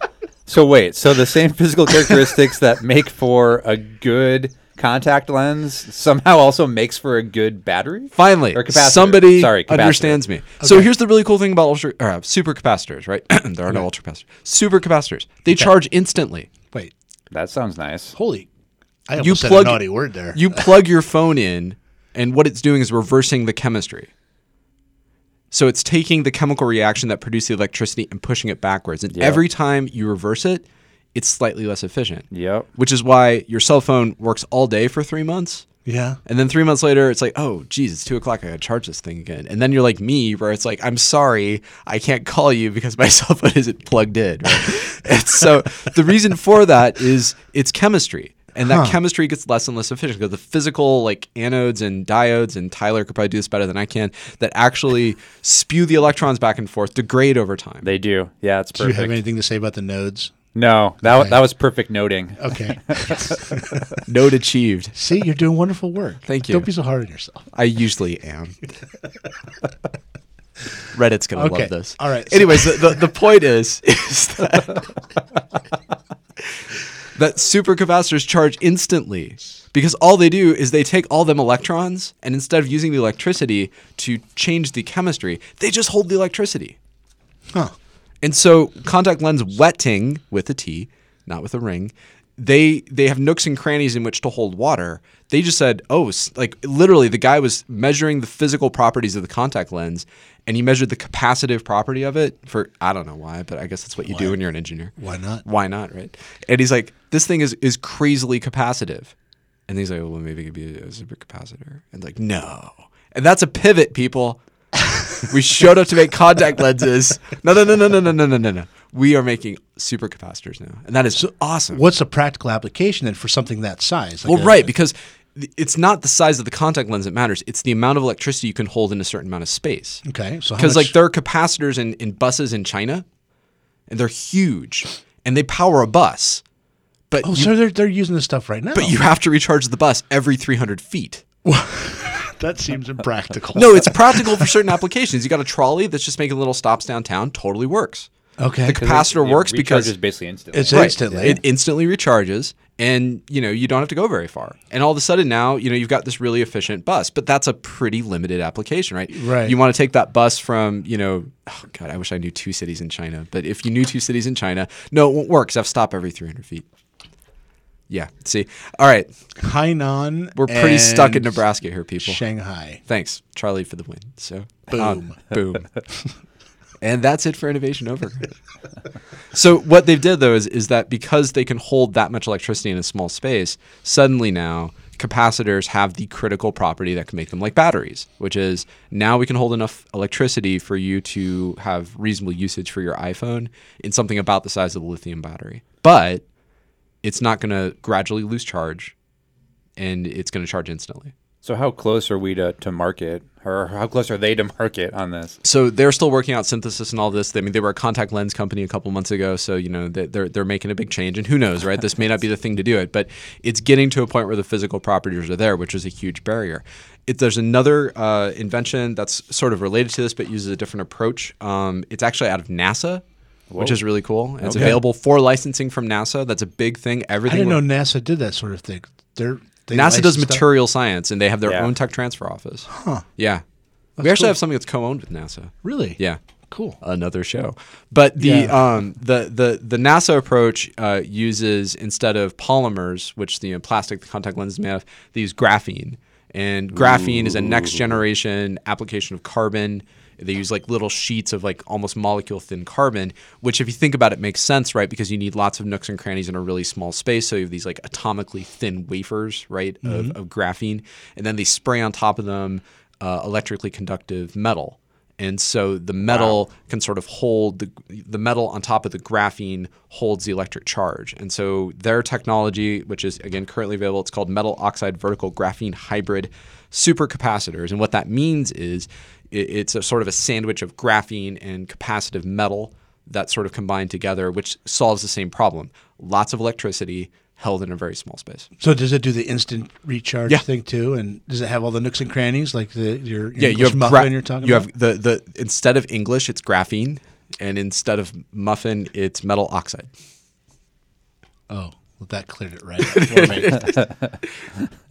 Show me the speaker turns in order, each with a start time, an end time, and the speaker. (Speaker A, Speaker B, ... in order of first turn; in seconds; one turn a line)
Speaker A: 0.5-10.2
Speaker B: 8.1-16.5
Speaker C: 10.6-10.9
Speaker A: 17.3-18.1
Speaker C: 18.1-18.5
Speaker C: 19.1-20.7
Speaker B: 19.2-24.1
Speaker B: 25.5-30.6
Speaker A: 29.1-29.4
Speaker B: 31.1-35.6
Speaker A: 32.3-32.7
Speaker C: 35.9-36.2
Speaker B: 36.2-57.9
Speaker C: 48.6-49.0
Speaker A: 57.8-59.2
Speaker C: 58.8-60.3
Speaker A: 60.5-63.1
Speaker C: 61.1-61.4
Speaker C: 62.4-64.0
Speaker B: 64.0-64.9
Speaker C: 65.0-67.5
Speaker B: 66.2-66.7
Speaker B: 67.5-68.6
Speaker B: 70.9-75.0
Speaker C: 71.3-73.1
Speaker B: 77.1-86.8
Speaker B: 88.2-109.1
Speaker C: 104.0-104.4
Speaker C: 105.0-105.5
Speaker B: 109.7-114.4
Speaker B: 115.1-121.8
Speaker C: 121.1-124.7
Speaker B: 124.2-130.0
Speaker C: 130.0-130.9
Speaker B: 130.6-133.0
Speaker B: 133.9-136.4
Speaker B: 137.1-137.5
Speaker C: 137.2-139.0
Speaker B: 138.8-141.2
Speaker C: 141.4-144.5
Speaker B: 143.5-148.1
Speaker C: 148.4-148.8
Speaker B: 148.6-149.9
Speaker A: 148.7-151.4
Speaker C: 150.5-151.4
Speaker B: 150.7-166.6
Speaker C: 159.1-159.6
Speaker B: 167.9-169.1
Speaker C: 169.4-171.4
Speaker B: 170.4-172.3
Speaker C: 172.0-172.8
Speaker B: 172.8-175.9
Speaker C: 174.7-175.2
Speaker B: 176.8-178.3
Speaker B: 179.3-196.2
Speaker B: 197.0-198.9
Speaker B: 199.8-201.1
Speaker A: 201.4-205.4
Speaker B: 205.4-223.0
Speaker A: 223.5-223.8
Speaker B: 223.6-227.6
Speaker A: 224.4-224.8
Speaker C: 227.3-230.4
Speaker B: 229.7-233.4
Speaker A: 231.4-231.7
Speaker C: 232.7-233.1
Speaker C: 234.0-234.4
Speaker B: 234.0-236.2
Speaker C: 235.6-236.8
Speaker B: 236.8-288.5
Speaker C: 238.2-238.6
Speaker C: 259.8-260.1
Speaker C: 288.6-294.7
Speaker B: 293.4-299.9
Speaker C: 301.5-303.7
Speaker B: 302.9-303.8
Speaker A: 303.6-303.9